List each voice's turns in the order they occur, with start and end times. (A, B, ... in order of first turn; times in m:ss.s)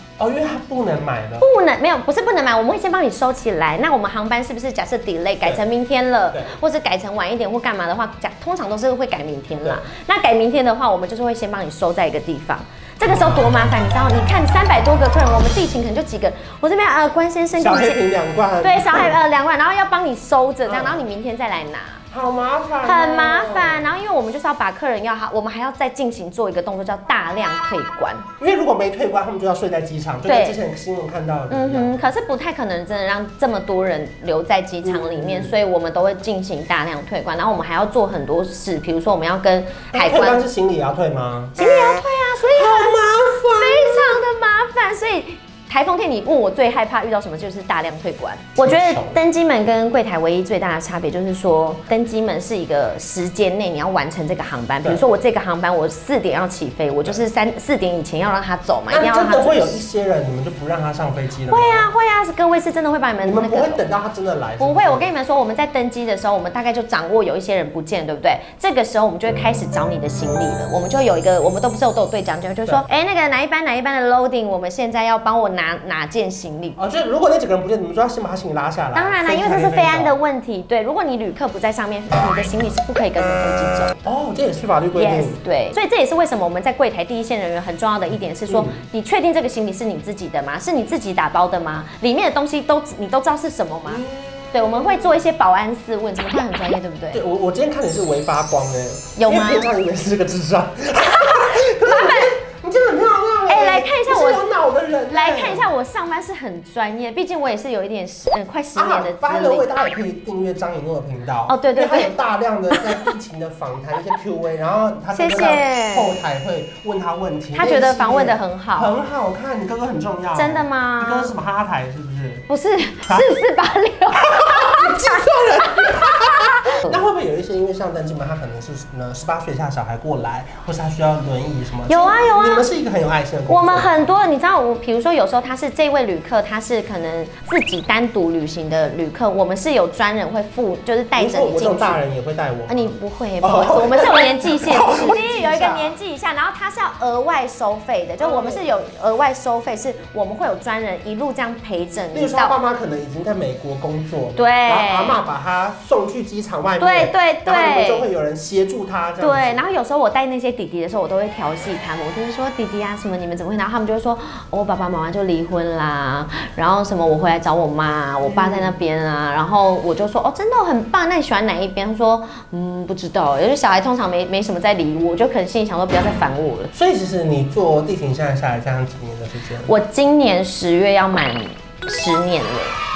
0:00.2-0:01.5 A
0:01.4-0:18.0 B
0:13.0-0:13.5 A
0:17.6-0:19.2 A
0:18.6-0:22.0 B
0:20.6-0:21.0 A
0:22.1-0:23.9 A
0:22.8-0:28.3 B
0:28.4-0:32.1 A
0:30.2-0:30.6 B
0:31.5-0:40.4 B
0:34.8-0:35.5 A
0:39.9-0:41.6 A
0:41.5-0:43.0 B
0:42.5-0:44.2 A
0:43.5-0:59.8 B
0:48.6-0:49.2 A
0:54.8-0:55.1 A
0:58.9-1:01.9 A
1:01.5-1:03.8 B
1:03.2-1:05.1 A
1:04.6-1:16.8 B
1:16.8-1:20.2 A
1:18.9-1:24.0 B
1:24.0-1:25.4 A
1:24.9-1:37.2 B
1:28.5-1:28.8 A
1:33.8-1:35.1 A
1:37.1-1:45.7 A
1:39.2-1:39.7 B
1:41.7-1:42.3 B
1:43.5-1:44.4 B
1:45.1-1:49.7 B
1:48.8-2:02.5 A
1:51.5-1:52.1 B
1:52.7-1:53.1 B
1:55.1-1:56.2 B
1:57.5-1:58.9 B
2:00.3-2:01.3 B
2:02.5-2:07.0 B
2:03.0-2:03.3 A
2:04.2-2:14.1 A
2:11.9-2:12.7 B
2:13.5-2:22.0 B
2:21.1-2:25.9 A
2:22.7-2:32.6 B
2:28.2-2:28.6 A
2:32.1-2:39.6 A
2:34.4-2:35.2 B
2:36.8-2:38.1 B
2:39.2-2:56.7 B
2:48.2-2:48.7 A
2:56.7-2:59.7 A
2:59.6-3:02.8 B